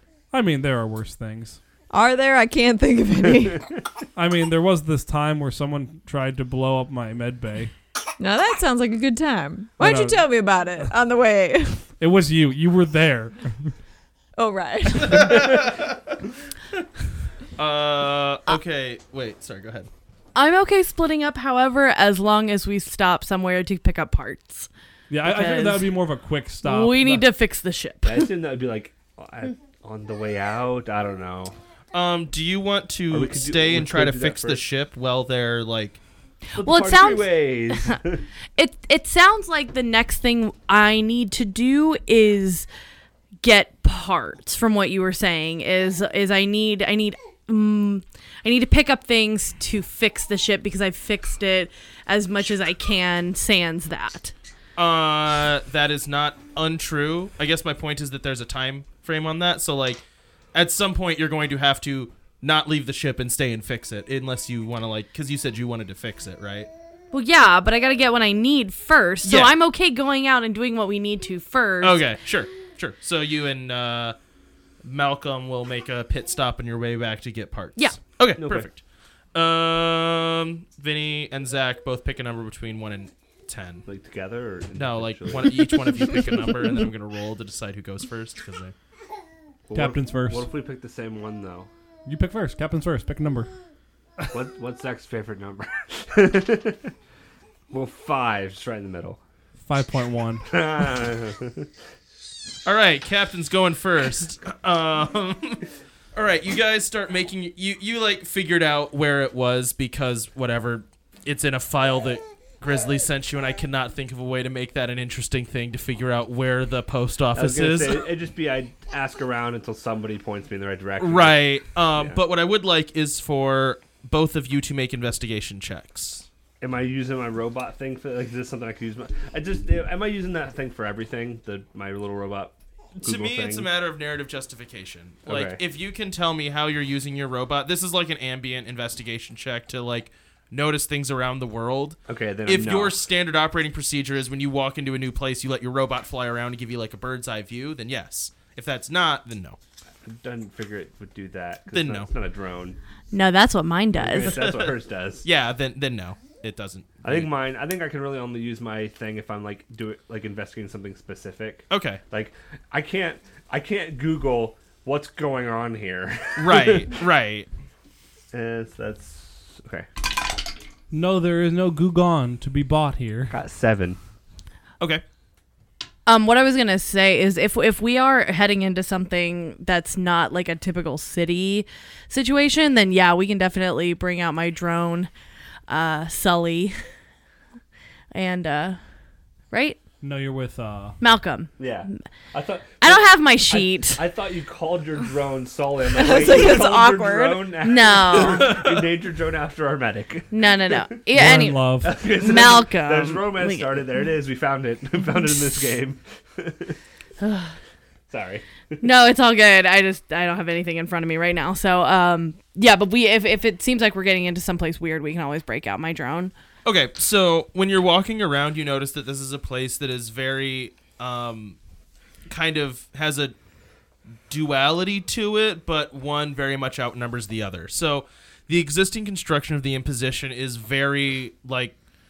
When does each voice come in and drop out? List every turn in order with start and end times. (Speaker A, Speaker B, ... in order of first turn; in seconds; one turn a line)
Speaker A: 0.3-1.6
Speaker B: 1.9-3.7
Speaker A: 4.2-7.7
Speaker B: 8.2-11.9
Speaker A: 9.8-10.3
Speaker A: 12.0-13.8
Speaker B: 14.4-15.6
Speaker C: 15.0-16.2
Speaker C: 17.6-19.9
Speaker D: 20.4-24.7
Speaker A: 25.1-27.2
Speaker D: 25.2-25.9
Speaker D: 26.6-28.3
Speaker E: 28.0-31.5
Speaker C: 31.9-36.0
Speaker E: 33.1-34.6
Speaker D: 36.5-38.0
Speaker E: 36.6-38.2
Speaker D: 38.6-42.7
Speaker D: 43.4-54.3
Speaker C: 54.8-60.0
Speaker C: 60.5-66.7
Speaker D: 67.1-72.0
Speaker C: 69.2-69.5
Speaker C: 71.8-74.2
Speaker C: 74.8-78.8
Speaker E: 78.4-78.7
Speaker C: 79.3-83.8
Speaker E: 83.9-86.4
Speaker C: 84.8-88.7
Speaker E: 89.7-91.7
Speaker A: 89.7-90.5
Speaker A: 92.1-93.5
Speaker E: 94.3-96.9
Speaker E: 97.7-99.2
Speaker A: 99.7-100.6
Speaker E: 100.5-101.7
Speaker C: 102.7-105.6
Speaker C: 106.2-118.1
Speaker E: 117.3-121.4
Speaker C: 121.0-126.3
Speaker E: 121.9-122.2
Speaker E: 126.6-133.7
Speaker C: 133.0-149.6
Speaker E: 135.3-135.6
Speaker E: 142.1-143.0
Speaker E: 150.0-152.8
Speaker C: 151.7-152.1
Speaker D: 153.1-154.4
Speaker E: 153.9-155.2
Speaker C: 154.3-154.7
Speaker C: 155.2-157.3
Speaker E: 157.0-167.0
Speaker C: 161.7-162.0
Speaker C: 166.4-167.5
Speaker E: 168.3-169.9
Speaker A: 170.9-173.3
Speaker E: 173.3-174.0
Speaker D: 176.1-185.1
Speaker D: 185.7-186.7
Speaker D: 188.1-188.8
Speaker D: 189.5-189.8
Speaker A: 190.0-191.0
Speaker D: 191.0-191.5
Speaker E: 191.6-200.9
Speaker D: 192.8-194.0
Speaker B: 195.9-197.6
Speaker D: 197.6-198.6
Speaker C: 198.2-198.9
Speaker D: 200.3-203.8
Speaker A: 201.1-202.0
Speaker E: 201.8-206.8
Speaker D: 207.2-207.6
Speaker E: 208.1-208.8
Speaker D: 208.8-216.3
Speaker C: 216.7-221.6
Speaker C: 222.3-223.3
Speaker C: 224.3-231.8